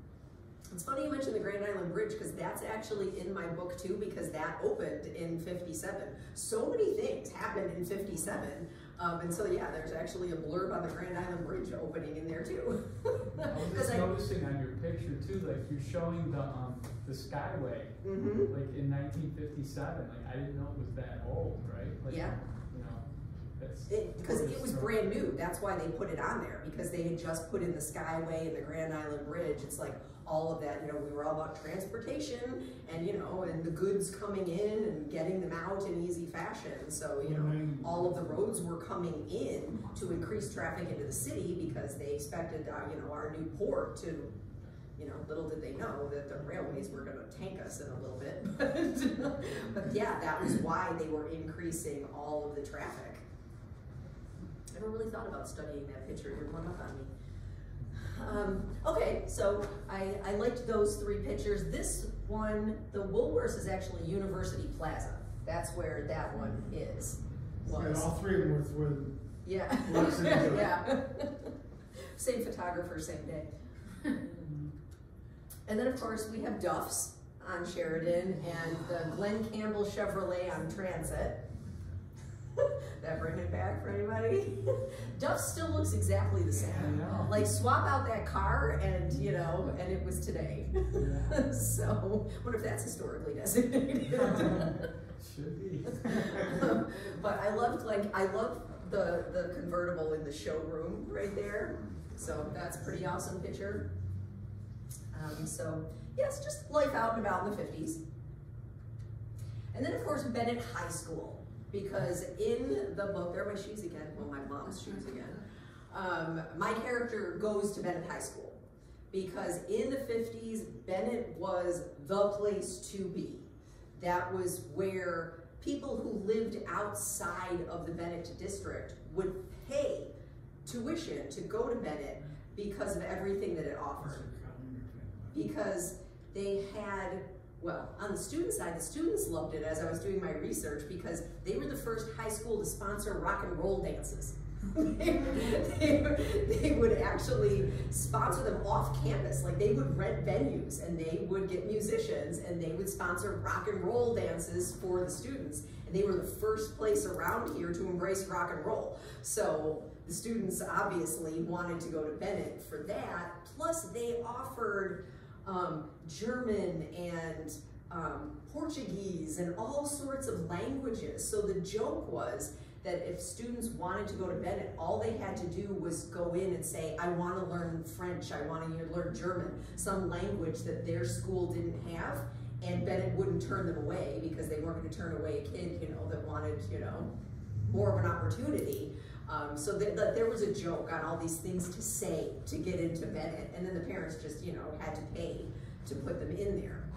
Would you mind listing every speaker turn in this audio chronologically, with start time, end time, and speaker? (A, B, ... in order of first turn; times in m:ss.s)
0:00.7-0:14.1 A
0:13.4-0:23.0 B
0:18.0-0:18.5 A
0:22.1-0:22.3 A
0:23.6-0:25.0 B
0:23.9-0:44.3 A
0:37.2-0:38.5 C
0:45.0-0:53.2 A
0:54.7-0:57.1 A
0:57.9-1:08.1 A
1:07.7-1:09.2 C
1:09.4-1:11.5 A
1:09.7-1:10.8 C
1:12.1-1:13.5 A
1:15.7-1:21.4 A
1:22.6-1:34.8 A
1:26.7-1:27.3 B
1:30.9-1:31.4 B
1:34.2-1:36.8 B
1:36.0-1:43.9 A
1:45.1-1:48.0 A
1:49.7-1:55.4 A
1:55.9-1:58.6 A
1:59.1-2:10.1 A
2:10.7-2:14.2 A
2:14.0-2:15.4 C
2:15.3-3:07.1 A
3:07.7-3:16.9 A